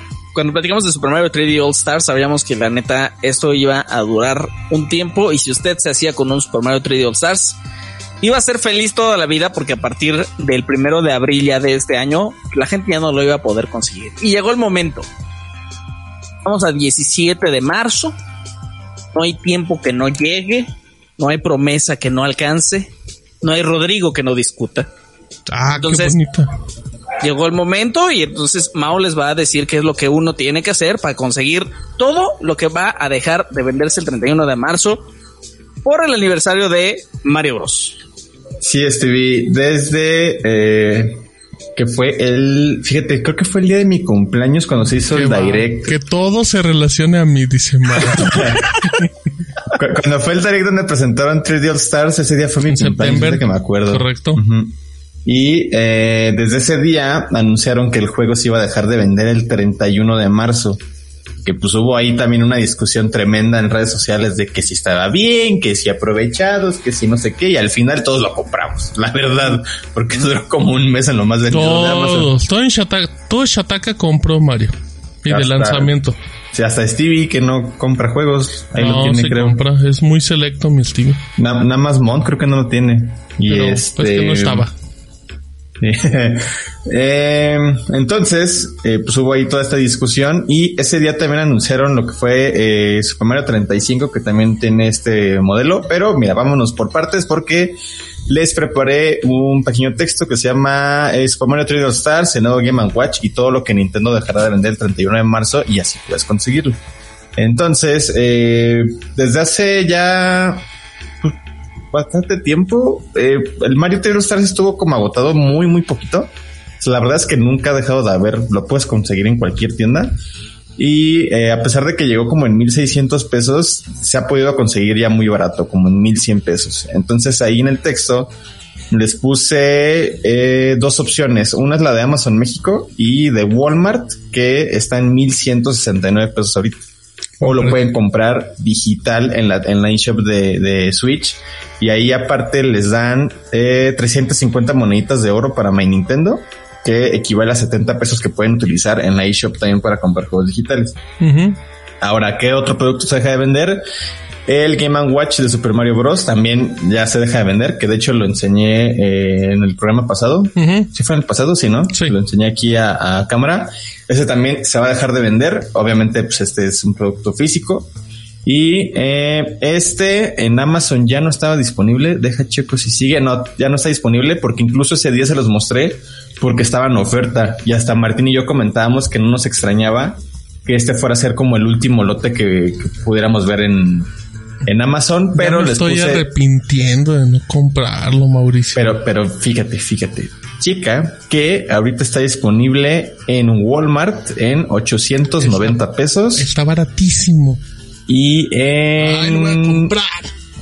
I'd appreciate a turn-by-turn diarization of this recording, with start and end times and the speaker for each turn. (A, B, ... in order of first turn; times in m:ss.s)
0:00.3-0:07.6 A
0:08.2-0:15.1 A
0:16.4-0:18.2 A
0:19.1-0:24.9 A
0:25.5-0:26.5 B
0:25.7-0:26.2 A
0:27.2-0:35.0 A
0:35.8-0:38.0 A
0:38.6-0:41.2 C
0:41.8-0:46.0 C
0:45.1-0:49.1 B
0:48.1-0:48.8 C
0:49.7-1:00.8 C
0:52.7-0:54.4 B
1:01.4-1:12.3 C
1:11.5-1:14.7 B
1:15.2-1:16.2 B
1:15.3-1:15.9 C
1:16.5-1:19.6 C
1:18.8-1:21.2 B
1:21.4-1:24.6 C
1:23.5-1:24.7 B
1:25.8-1:46.8 C
1:47.4-1:50.6 C
1:51.9-2:00.1 C
2:00.8-2:08.3 C
2:08.9-2:16.8 C
2:17.4-2:31.0 C
2:31.2-2:31.6 B
2:32.0-2:33.8 C
2:34.4-2:47.9 C
2:40.6-2:40.9 B
2:48.4-3:04.1 C
3:04.6-3:06.2 C
3:05.4-3:09.0 B
3:08.7-3:16.5 C
3:15.4-3:15.8 B
3:16.4-3:17.6 B
3:18.1-3:19.9 C
3:19.0-3:20.3 B